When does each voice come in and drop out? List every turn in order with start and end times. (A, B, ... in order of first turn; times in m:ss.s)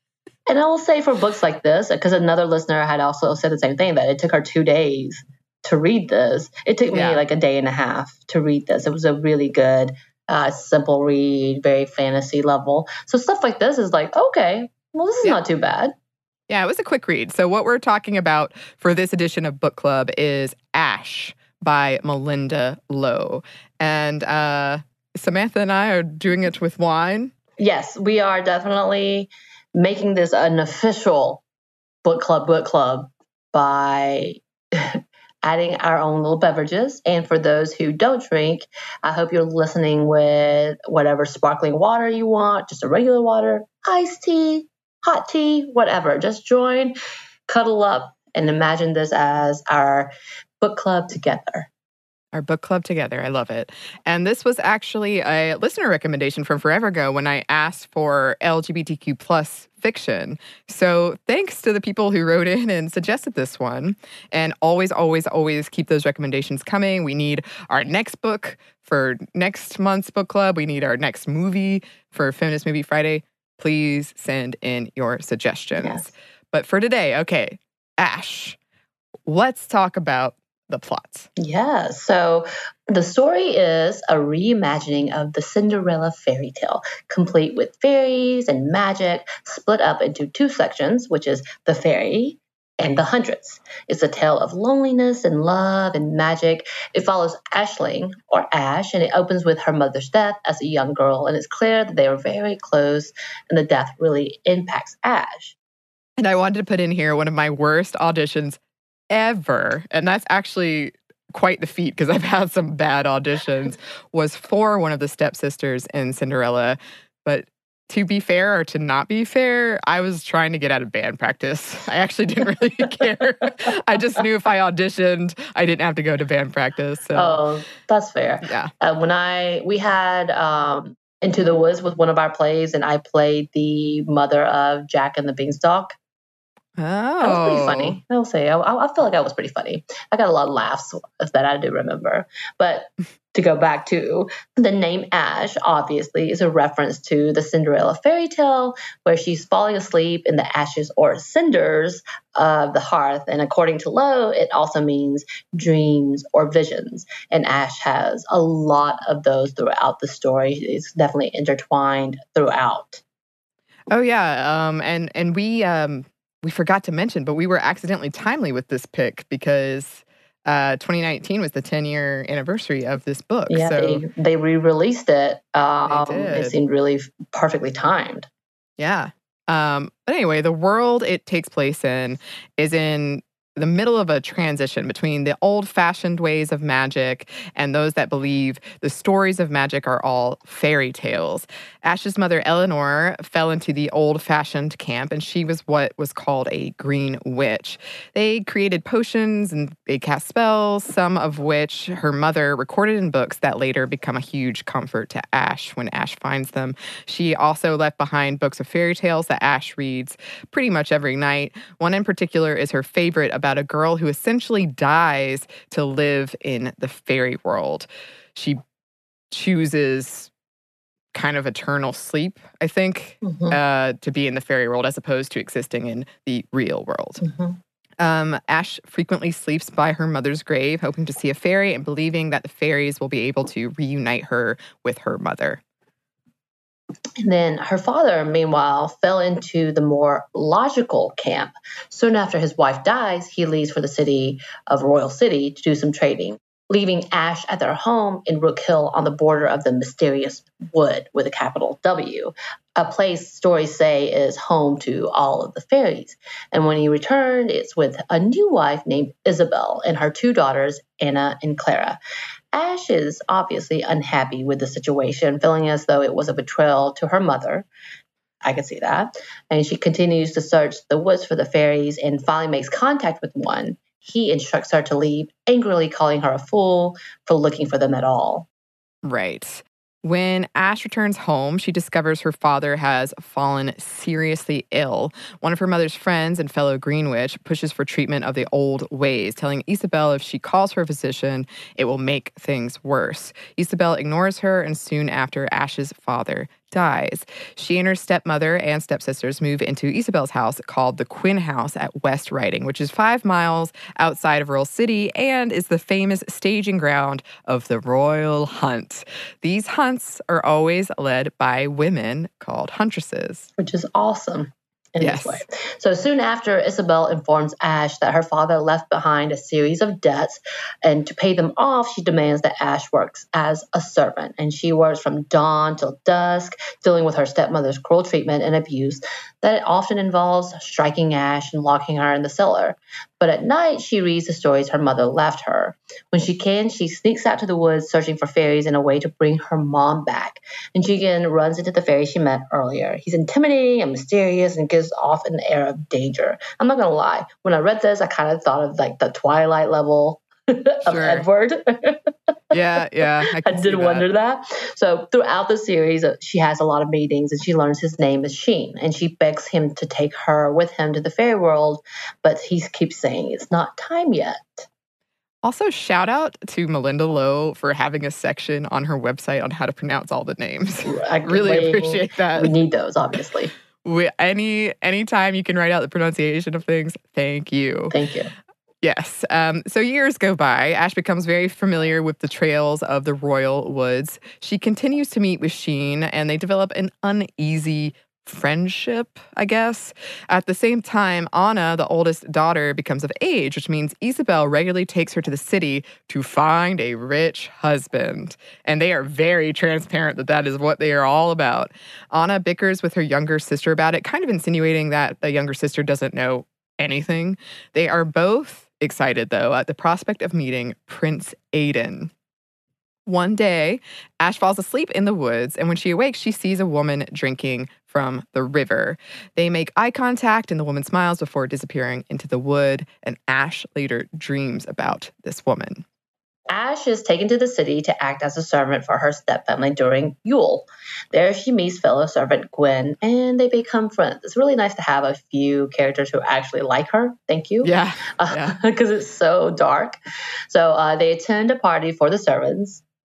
0:00.5-0:15.9 A
0:06.9-0:07.2 B
0:16.5-0:27.3 B
0:27.6-0:31.4 A
0:32.0-0:47.0 A
0:47.5-0:51.7 A
0:52.3-1:18.6 B
1:15.8-1:16.1 A
1:19.2-1:21.3 B
1:21.4-1:45.6 A
1:46.2-1:48.6 B
1:49.1-2:07.4 B
2:07.1-2:16.0 A
2:08.4-2:08.7 B
2:16.8-2:18.0 B
2:17.2-2:43.0 A
2:43.9-2:54.0 B
2:53.5-2:58.3 A
2:55.8-2:56.5 B
2:58.8-3:38.6 B
3:39.3-3:40.3 B
3:41.1-3:47.2 B
3:43.2-3:43.6 A
3:47.2-3:47.6 A
3:48.0-3:55.6 B
3:57.2-4:22.0 A
4:22.5-4:27.7 A
4:28.4-4:38.5 A
4:39.0-5:13.5 B
5:13.6-5:52.1 A
5:15.0-5:15.4 B
5:50.8-5:51.2 B
5:52.5-5:54.0 B
5:53.4-6:04.7 A
6:05.4-6:12.5 B
6:10.8-6:13.5 A
6:13.8-6:17.9 B
6:17.9-6:18.3 A
6:18.8-6:52.1 B
6:53.0-7:05.8 B
7:06.5-7:20.0 A
7:17.6-7:18.6 B
7:20.5-7:22.8 A